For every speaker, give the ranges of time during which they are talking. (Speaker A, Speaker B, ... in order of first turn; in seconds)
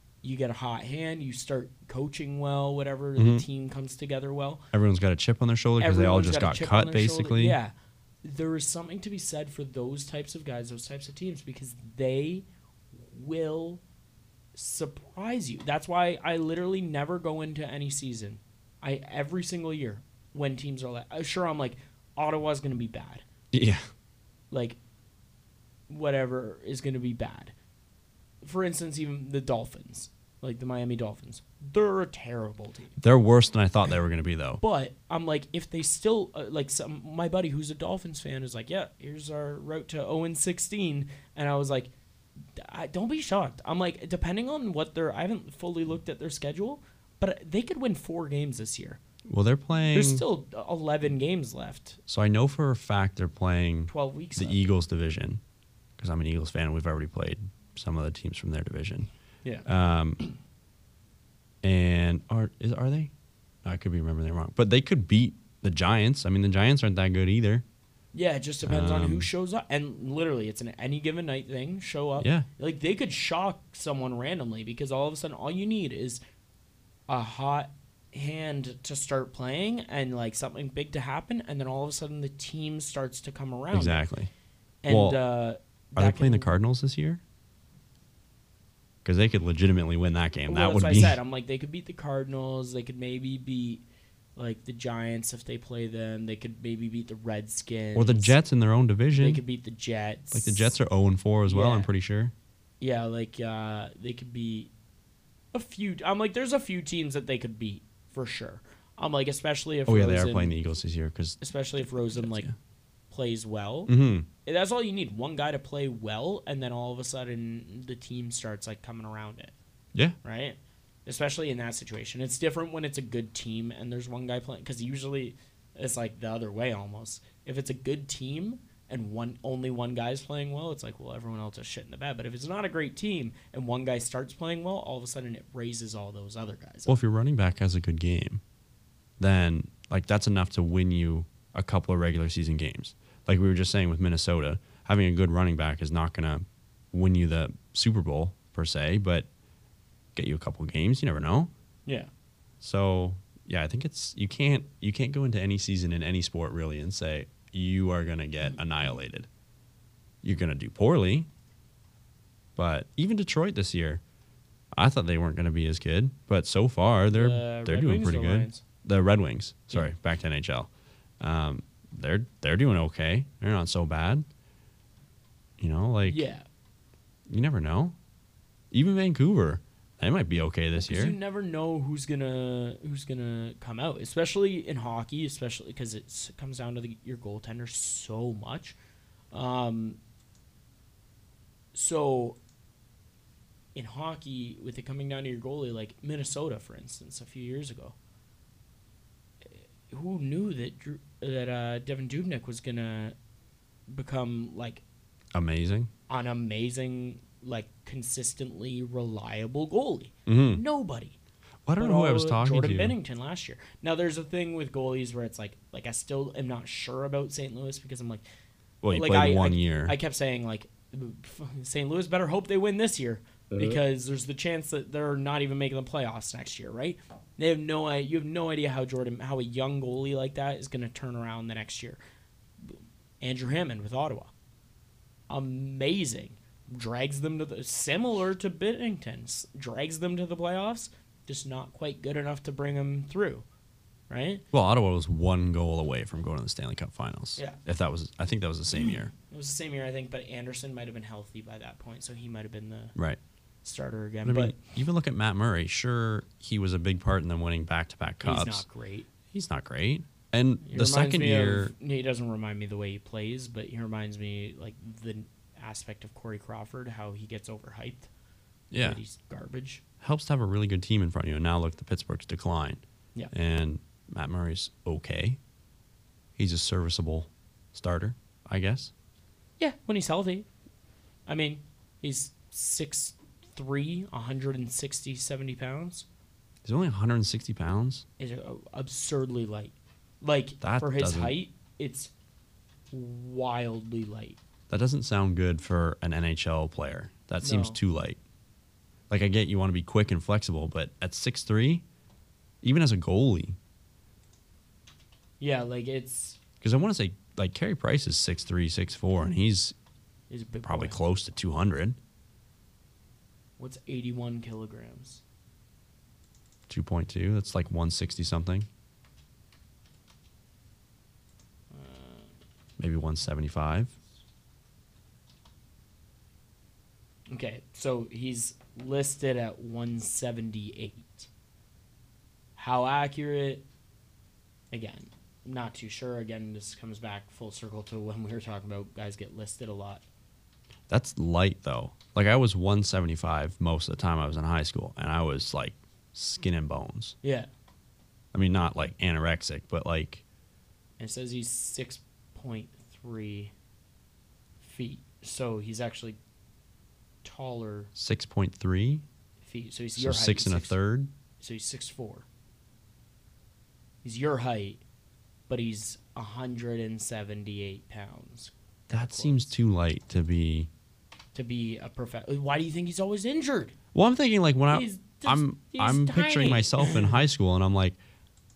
Speaker A: 0.2-4.7, 5.8-12.5, 13.1-13.8, 14.6-23.2, 24.5-24.8, 25.9-27.5, 28.4-33.0, 34.6-41.9, 42.6-49.0, 49.9-52.0, 53.9-54.6, 68.1-76.2, 77.1-84.0, 84.8-86.5, 90.5-93.8, 94.4-98.4, 99.2-100.8, 101.5-101.9, 102.8-104.7, 105.5-110.5, 111.4-112.5, 113.1-113.9, 114.4-119.5, 120.2-137.0, 167.1-168.6, 176.1-176.4, 180.8-188.8, 189.3-190.0, 191.7-192.4, 193.8-198.0, 199.4-203.2, 203.9-204.8, 206.1-211.2, 211.8-218.2, 218.9-232.0, 232.6-234.3, 235.3-243.4, 244.1-244.4, 249.3-252.9, 253.6-254.6, 258.2-259.1, 260.6-268.1, 268.8-269.8, 279.6-280.5, 281.3-286.1, 288.2-292.1, 292.9-294.4, 297.4-297.8, 305.4-306.4, 310.3-311.0, 313.6-315.2, 321.7-322.3, 327.3-331.3, 332.6-333.6, 334.7-340.0, 347.2-347.5, 351.0-353.5, 354.6-356.2, 357.2-357.9, 359.4-360.8, 361.4-362.3, 364.0-364.8, 365.5-369.5, 371.4-373.8, 374.7-377.2
Speaker B: 3.2-3.5, 4.7-7.6, 23.5-23.9, 33.0-34.6, 49.3-50.2, 52.1-55.4, 56.0-59.1, 59.6-60.2, 61.6-63.1, 63.6-67.6, 68.6-69.3, 72.2-72.5, 83.7-84.3, 84.9-85.2, 86.0-87.2, 89.0-91.2, 98.0-99.4, 100.3-102.3, 109.9-111.4, 112.1-112.5, 113.9-114.3, 136.9-138.4, 139.2-149.3, 150.2-151.5, 152.6-159.3, 160.2-161.3, 162.6-164.0, 164.8-170.7, 171.2-174.2, 175.6-176.2, 177.3-177.9, 178.7-181.2, 205.3-205.9, 210.3-210.6, 211.7-213.0, 218.8-219.9, 244.5-249.1, 254.2-258.6, 259.3-261.7, 268.7-269.0, 270.0-275.4, 276.4-278.9, 286.6-288.1, 290.6-291.4, 294.7-298.2, 299.1-301.8, 302.6-303.6, 306.6-309.8, 310.6-312.0, 316.7-318.7, 322.8-323.9, 340.9-347.1, 348.3-350.2, 357.9-359.1, 360.0-361.1, 368.9-370.7, 373.9-378.0